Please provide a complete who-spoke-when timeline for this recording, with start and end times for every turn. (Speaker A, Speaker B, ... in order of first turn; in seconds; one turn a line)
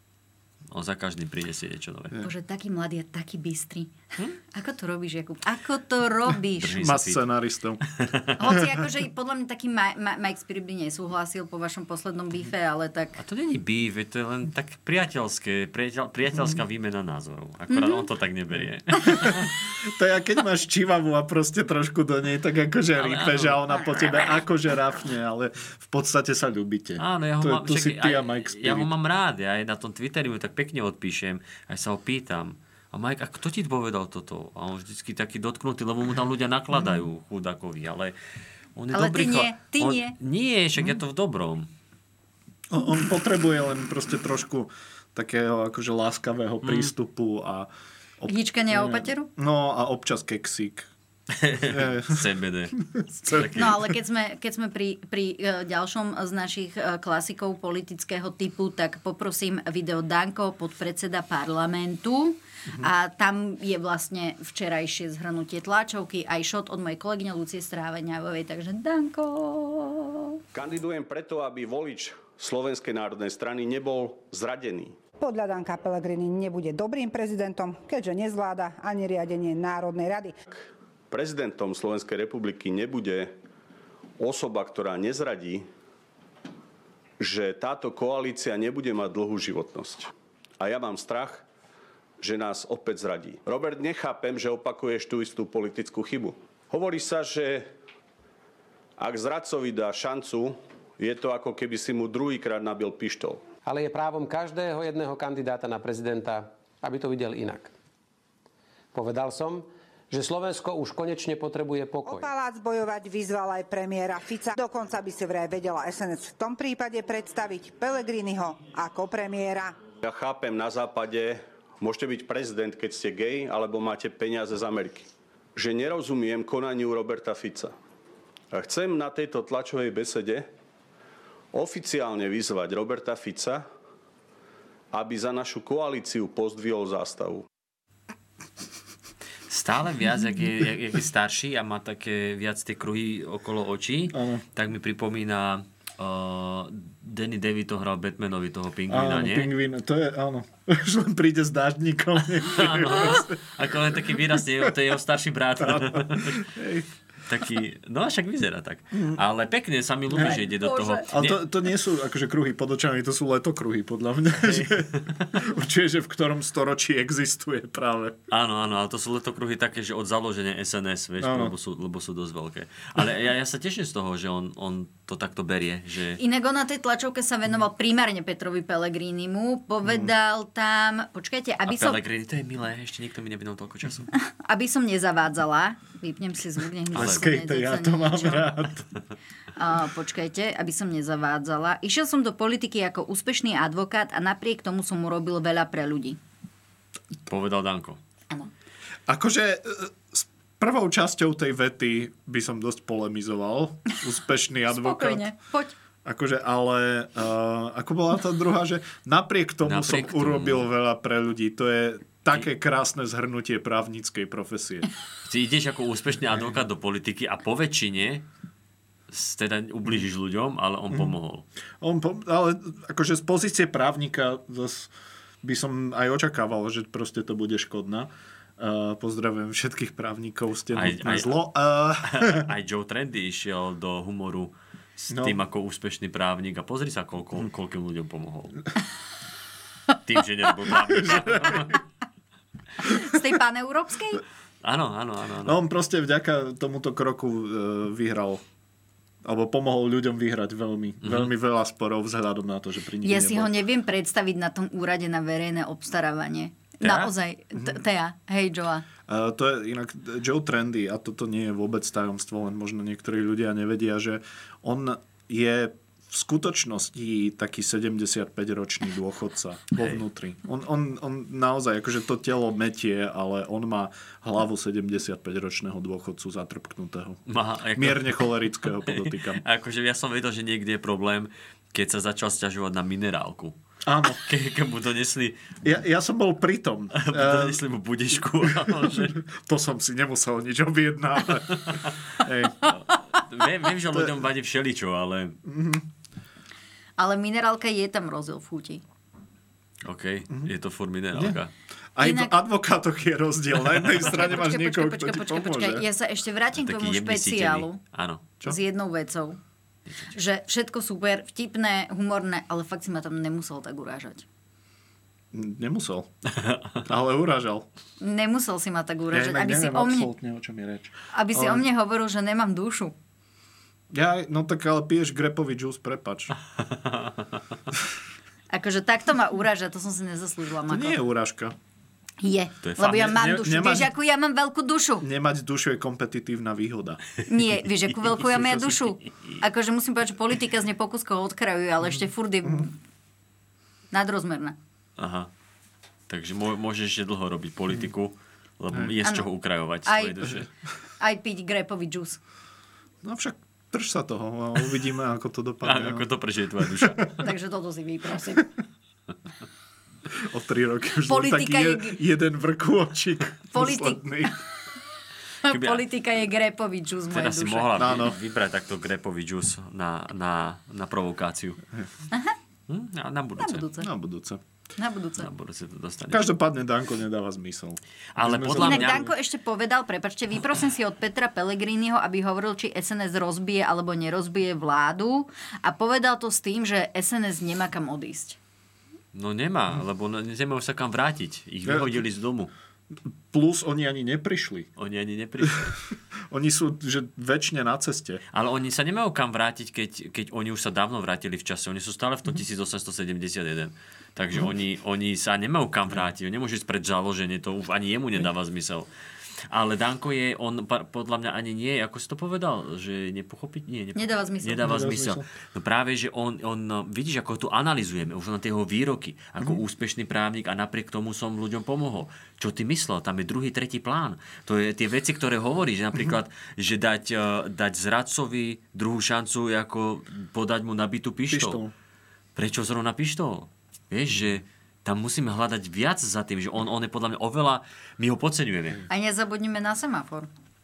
Speaker A: 0.7-2.2
Speaker B: 2.2-6.8
Speaker A: 6.6-7.3
Speaker C: 6.7-7.8
Speaker A: 7.9-8.3
Speaker B: 8.4-13.2
Speaker A: 13.2-19.5
Speaker B: 17.7-18.1
Speaker C: 19.1-28.9
Speaker A: 23.0-23.6
Speaker A: 27.0-38.2
Speaker A: 38.8-41.7
Speaker B: 38.9-40.2
Speaker C: 42.7-50.9
Speaker A: 46.6-46.9
Speaker B: 48.3-49.3
Speaker A: 51.4-53.9
Speaker C: 51.6-52.3
Speaker C: 52.9-53.9
Speaker B: 53.4-70.4
Speaker D: 70.5-75.0
Speaker E: 75.2-80.3
Speaker D: 81.1-83.3
Speaker D: 84.2-85.7
Speaker D: 87.2-91.5
Speaker D: 92.2-97.7
Speaker D: 99.0-103.5
Speaker F: 103.6-107.7
Speaker F: 108.9-112.3
Speaker E: 112.0-119.8
Speaker D: 120.0-127.7
Speaker D: 128.5-130.5
Speaker D: 131.5-133.6
Speaker D: 134.9-137.5
Speaker A: 139.5-149.5
Speaker C: 144.1-144.4
Speaker C: 148.9-154.0
Speaker A: 152.4-156.4
Speaker C: 155.6-156.9
Speaker A: 157.3-161.4
Speaker C: 158.9-159.2
Speaker B: 160.1-161.1
Speaker C: 161.1-168.2
Speaker A: 164.4-165.4
Speaker A: 168.3-176.2
Speaker C: 171.2-171.5
Speaker B: 176.2-182.0
Speaker C: 179.8-180.1
Speaker A: 181.7-184.1
Speaker B: 184.2-188.6
Speaker C: 186.9-188.8
Speaker A: 186.9-187.3
Speaker B: 189.6-196.2
Speaker A: 197.3-198.0
Speaker C: 199.1-205.3
Speaker B: 204.7-205.7
Speaker C: 206.0-214.9
Speaker A: 209.7-210.7
Speaker A: 215.2-218.2
Speaker A: 219.1-221.5
Speaker C: 220.9-221.2
Speaker C: 221.8-224.9
Speaker C: 225.4-232.5
Speaker A: 230.7-231.4
Speaker A: 232.0-238.7
Speaker C: 235.1-235.4
Speaker A: 240.0-241.8
Speaker C: 240.7-241.8
Speaker B: 242.8-244.2
Speaker A: 244.6-245.6
Speaker C: 245.4-248.4
Speaker C: 249.2-253.6
Speaker A: 251.0-251.3
Speaker B: 253.0-258.9
Speaker A: 256.8-257.1
Speaker C: 259.1-277.2
Speaker A: 277.3-283.6
Speaker C: 277.8-279.4
Speaker C: 283.9-284.2
Speaker A: 284.1-285.4
Speaker C: 285.6-287.6
Speaker A: 286.9-289.2
Speaker C: 288.4-292.7
Speaker A: 291.6-291.9
Speaker A: 292.7-295.4
Speaker C: 295.4-295.9
Speaker B: 297.0-298.8
Speaker A: 299.9-301.5
Speaker C: 302.0-305.9
Speaker B: 302.0-302.4
Speaker B: 304.0-307.8
Speaker A: 306.6-308.2
Speaker B: 308.4-309.4
Speaker B: 310.1-314.2
Speaker C: 315.3-316.1
Speaker A: 316.4-316.8
Speaker C: 316.9-317.7
Speaker B: 318.0-320.1
Speaker C: 319.1-321.6
Speaker B: 321.1-322.9
Speaker C: 323.9-326.3
Speaker A: 326.6-327.3
Speaker B: 328.5-331.0
Speaker C: 330.7-331.6
Speaker B: 332.2-335.1
Speaker A: 332.6-333.5
Speaker C: 333.2-333.9
Speaker C: 335.0-337.0
Speaker B: 337.3-342.8
Speaker A: 338.3-338.9
Speaker B: 343.9-344.6
Speaker A: 345.0-345.3
Speaker A: 346.1-350.5
Speaker B: 349.9-350.4
Speaker B: 351.0-352.2
Speaker C: 353.0-357.2
Speaker A: 355.6-357.1
Speaker B: 357.2-358.5
Speaker C: 360.1-364.4
Speaker B: 361.1-362.0
Speaker B: 363.5-364.4
Speaker B: 365.4-368.0
Speaker A: 365.5-365.8
Speaker A: 367.1-371.6
Speaker C: 367.8-368.2
Speaker B: 372.1-372.4
Speaker A: 372.7-373.7
Speaker B: 373.4-373.9
Speaker C: 373.8-374.4
Speaker B: 374.8-375.3
Speaker A: 375.2-376.3
Speaker C: 376.1-379.1
Speaker A: 378.1-379.1
Speaker B: 378.6-388.4
Speaker A: 389.1-392.5
Speaker C: 391.7-391.9
Speaker C: 393.3-394.7
Speaker A: 394.8-395.8
Speaker C: 395.4-395.7
Speaker C: 396.3-398.2
Speaker A: 398.3-408.9
Speaker A: 409.5-431.6
Speaker B: 413.9-414.8
Speaker C: 414.6-415.3
Speaker C: 431.3-431.7
Speaker A: 432.4-438.8
Speaker B: 438.9-440.3